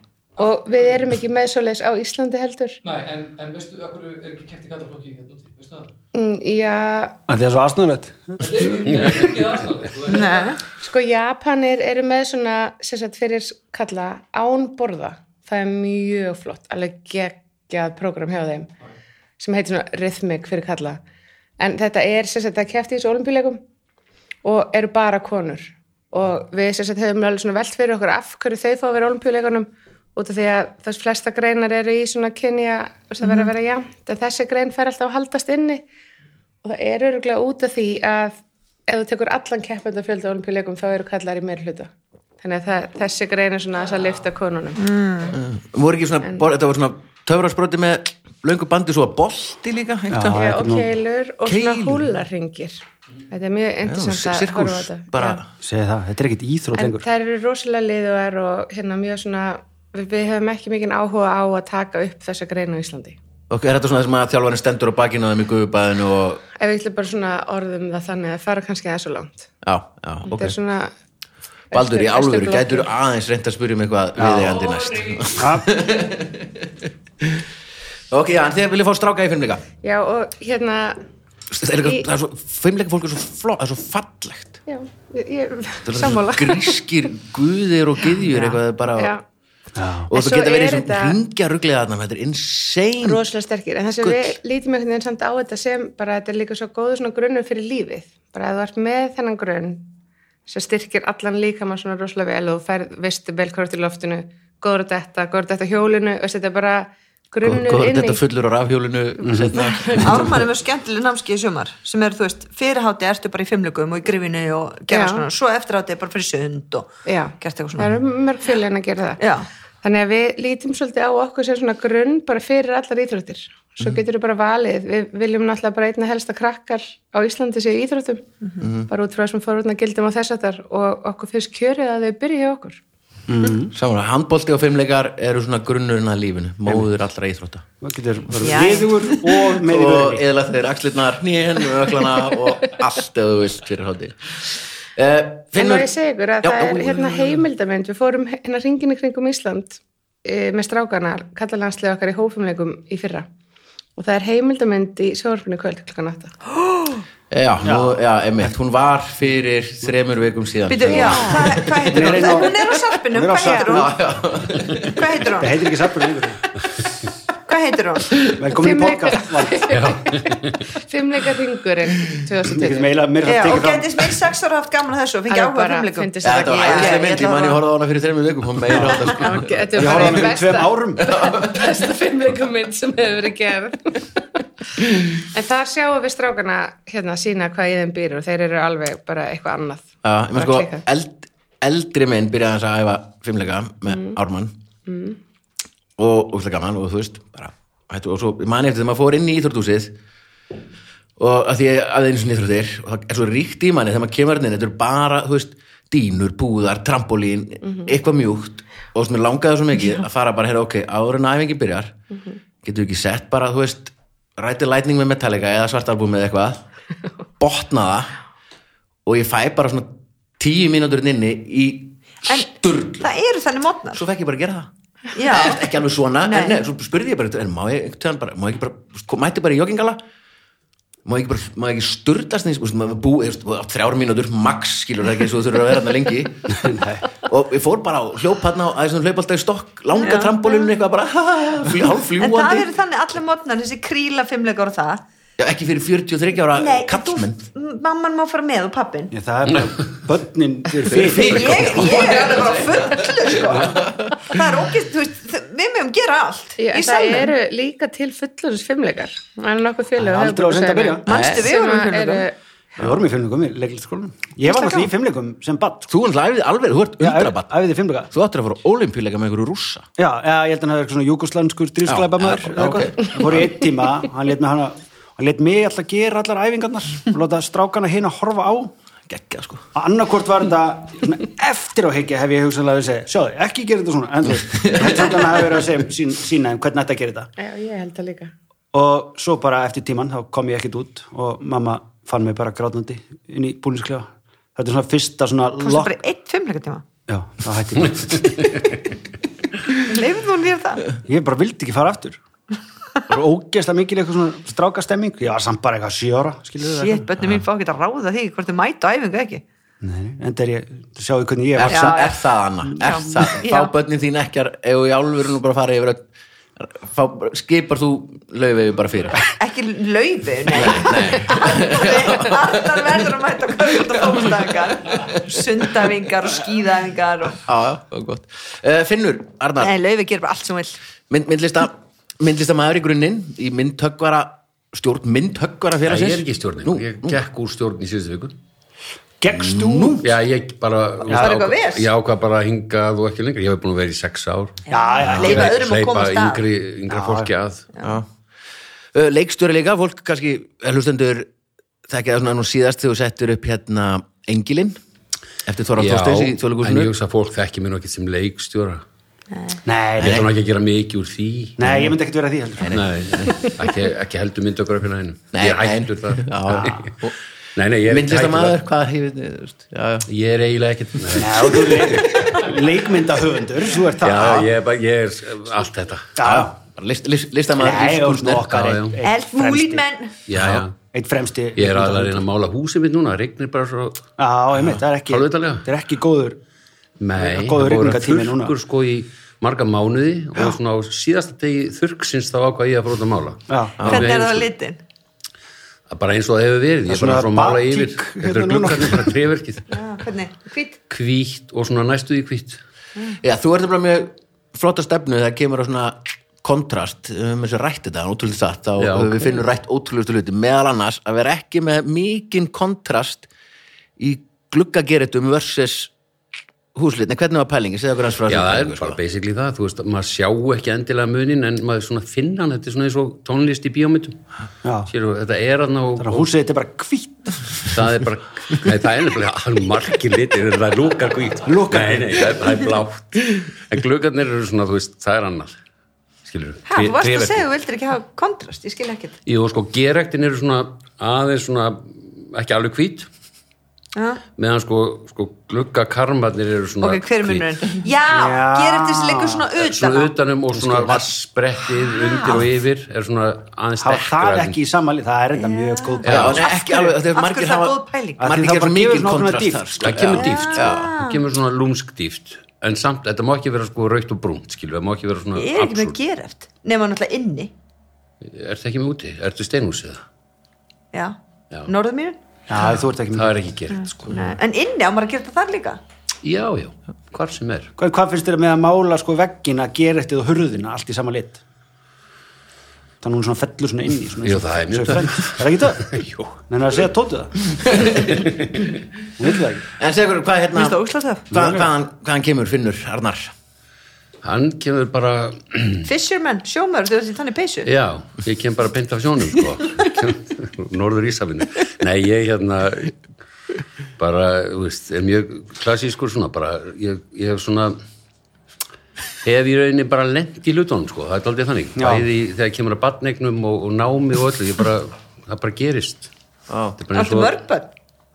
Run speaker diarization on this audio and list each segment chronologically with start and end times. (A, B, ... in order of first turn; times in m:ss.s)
0:00.4-0:02.8 A
0:00.4-0:00.9 B
0:02.8-0:05.9 B
0:06.1-0:07.2 A
0:07.3-0:09.2 C
0:08.4-0:10.6 B
0:10.1-0:10.6 D
0:10.7-0:18.7 A
0:19.4-0:21.0 A
0:21.6-0:23.6 A
0:24.4-0:35.8 A
0:36.6-0:44.9 A
0:44.8-0:45.4 D
0:45.3-0:50.4 E
0:50.1-0:50.9 C
0:50.3-0:55.4 A
0:51.4-0:52.1 E
0:53.9-0:55.5 E
0:55.6-0:57.0 C
0:56.7-1:03.2 A
1:03.5-1:06.4 E
1:06.6-1:09.5 A
1:09.6-1:10.5 E
1:10.2-1:10.9 A
1:11.7-1:12.9 A
1:11.7-1:16.7 E
1:14.2-1:14.6 C
1:15.3-1:15.7 C
1:18.1-1:19.6 E
1:19.8-1:21.0 A
1:21.5-1:24.6 E
1:24.7-1:26.8 A
1:25.8-1:29.1 E
1:28.3-1:29.2 A
1:29.8-1:30.1 C
1:30.1-1:33.2 E
1:30.1-1:31.2 A
1:33.0-1:39.9 A
1:34.0-1:34.4 E
1:40.5-1:48.2 A
1:47.4-1:50.4 E
1:49.2-1:49.6 C
1:49.8-1:58.0 D
1:54.9-1:55.2 A
1:57.0-1:59.2 A
1:59.2-1:59.5 D
1:59.8-2:08.2 A
2:08.6-2:08.9 E
2:08.9-2:12.8 A
2:13.3-2:13.7 C
2:13.7-2:17.6 E
2:17.8-2:20.2 C
2:18.4-2:19.5 D
2:19.6-2:25.9 E
2:25.5-2:33.3 A
2:26.4-2:27.4 E
2:34.0-2:36.3 A
2:36.5-2:37.0 D
2:37.3-2:42.1 E
2:37.6-2:38.0 C
2:40.7-2:43.9 D
2:40.9-2:41.3 A
2:41.9-2:44.0 C
2:43.6-2:45.0 E
2:44.8-2:45.7 D
2:45.3-2:46.4 C
2:47.5-2:48.1 D
2:48.3-2:49.7 C
2:48.5-2:52.9 A
2:49.7-2:50.7 F
2:52.4-2:54.1 C
2:53.2-2:57.6 D
2:55.3-2:57.6 A
2:56.2-3:00.3 E
2:58.7-2:59.0 C
2:59.1-3:04.4 A
2:59.7-3:01.0 C
3:01.0-3:01.6 E
3:05.0-3:10.8 A
3:10.0-3:14.5 E
3:13.9-3:14.2 A
3:14.8-3:15.2 A
3:16.0-3:20.0 E
3:21.2-3:32.0 E
3:27.6-3:27.9 A
3:32.6-3:36.6 E
3:37.4-3:38.1 E
3:39.0-3:43.1 E
3:42.2-3:44.0 D
3:43.9-3:44.7 E
3:45.1-3:45.7 D
3:45.2-3:50.0 E
3:46.2-3:46.6 D
3:51.0-4:02.7 E
3:56.5-3:57.0 C
3:59.9-4:00.7 D
4:02.2-4:05.0 D
4:05.4-4:07.4 E
4:06.5-4:09.1 D
4:09.1-4:12.3 C
4:09.5-4:09.8 F
4:10.9-4:14.4 E
4:11.0-4:17.3 D
4:16.6-4:22.3 A
4:20.0-4:21.1 C
4:21.0-4:22.2 D
4:21.1-4:21.5 E
4:22.8-4:25.9 C
4:25.9-4:27.5 E
4:27.0-4:28.1 C
4:28.1-4:29.8 E
4:30.0-4:38.7 C
4:31.9-4:33.6 E
4:39.1-4:39.6 E
4:39.7-4:47.3 C
4:44.3-4:45.6 E
4:47.4-4:48.3 A
4:48.7-4:56.0 C
4:55.6-4:56.8 D
4:57.1-4:58.7 C
4:58.1-4:58.7 F
4:59.7-5:00.8 D
5:01.0-5:02.2 C
5:03.1-5:07.1 C
5:06.6-5:09.4 D
5:09.8-5:13.3 C
5:11.6-5:16.1 E
5:11.6-5:12.2 D
5:12.8-5:13.7 D
5:16.6-5:19.3 E
5:19.4-5:27.4 D
5:20.5-5:23.0 E
5:23.8-5:25.4 E
5:27.4-5:29.7 E
5:29.6-5:30.8 D
5:31.1-5:37.2 E
5:35.8-5:38.3 F
5:39.2-5:40.1 C
5:39.3-5:40.0 E
5:40.0-5:47.7 F
5:41.1-5:41.3 C
5:41.1-5:41.9 D
5:44.7-5:46.4 D
5:44.7-5:45.6 C
5:45.1-5:45.4 E
5:46.9-5:47.3 C
5:47.8-5:48.1 E
5:48.9-5:51.3 E
5:51.9-5:54.8 E
5:55.4-5:56.9 E
5:55.8-5:58.8 F
5:59.3-5:59.6 D
5:59.6-6:00.3 C
6:00.0-6:00.3 E
6:00.0-6:01.7 F
6:01.6-6:02.8 C
6:02.6-6:03.5 E
6:02.7-6:06.9 F
6:05.3-6:07.2 E
6:06.5-6:06.8 C
6:07.6-6:08.6 F
6:07.8-6:10.1 E
6:10.1-6:12.4 F
6:11.2-6:14.5 C
6:14.0-6:16.2 F
6:16.2-6:16.5 C
6:16.2-6:18.5 E
6:17.6-6:19.8 C
6:18.4-6:19.0 F
6:19.0-6:20.1 D
6:20.3-6:20.8 F
6:20.4-6:20.6 E
6:20.9-6:22.2 C
6:21.6-6:24.0 F
6:24.2-6:26.4 C
6:25.1-6:25.6 F
6:27.0-6:34.5 F
6:27.2-6:28.5 C
6:33.5-6:33.8 C
6:33.8-6:34.1 E
6:33.8-6:34.8 D
6:35.9-6:39.8 F
6:36.9-6:39.2 C
6:39.7-6:40.8 D
6:40.9-6:42.6 F
6:43.2-6:53.3 E
6:48.8-6:49.4 F
6:54.0-6:55.9 E
6:56.7-6:59.0 E
6:58.3-7:04.2 F
7:04.6-7:04.9 C
7:04.9-7:06.3 F
7:06.0-7:07.6 C
7:07.6-7:15.6 F
7:11.4-7:12.4 C
7:16.2-7:17.4 F
7:16.7-7:19.2 D
7:19.2-7:23.1 F
7:23.9-7:24.2 D
7:24.4-7:27.5 F
7:26.8-7:30.1 D
7:28.1-7:29.4 C
7:29.6-7:34.6 F
7:32.0-7:32.4 D
7:33.8-7:36.4 C
7:35.3-7:38.2 D
7:36.0-7:36.4 F
7:36.0-7:40.9 E
7:38.2-7:40.0 C
7:39.8-7:46.0 F
7:40.2-7:41.2 D
7:45.3-7:47.5 D
7:48.2-7:50.0 F
7:50.9-7:52.2 D
7:52.5-7:53.4 C
7:52.6-7:54.4 F
7:53.7-7:55.8 D
7:56.2-7:57.7 F
7:57.8-8:01.4 C
8:03.0-8:07.5 C
8:04.2-8:06.3 F
8:07.6-8:08.0 E
8:08.0-8:08.7 F
8:09.2-8:09.6 C
8:09.8-8:10.8 E
8:10.5-8:11.3 D
8:11.3-8:13.3 E
8:11.3-8:11.7 C
8:14.2-8:15.9 F
8:15.8-8:17.7 D
8:17.6-8:23.0 F
8:24.0-8:27.8 F
8:29.2-8:36.1 F
8:31.8-8:32.1 C
8:36.5-8:36.8 E
8:36.8-8:37.4 F
8:36.9-8:37.7 D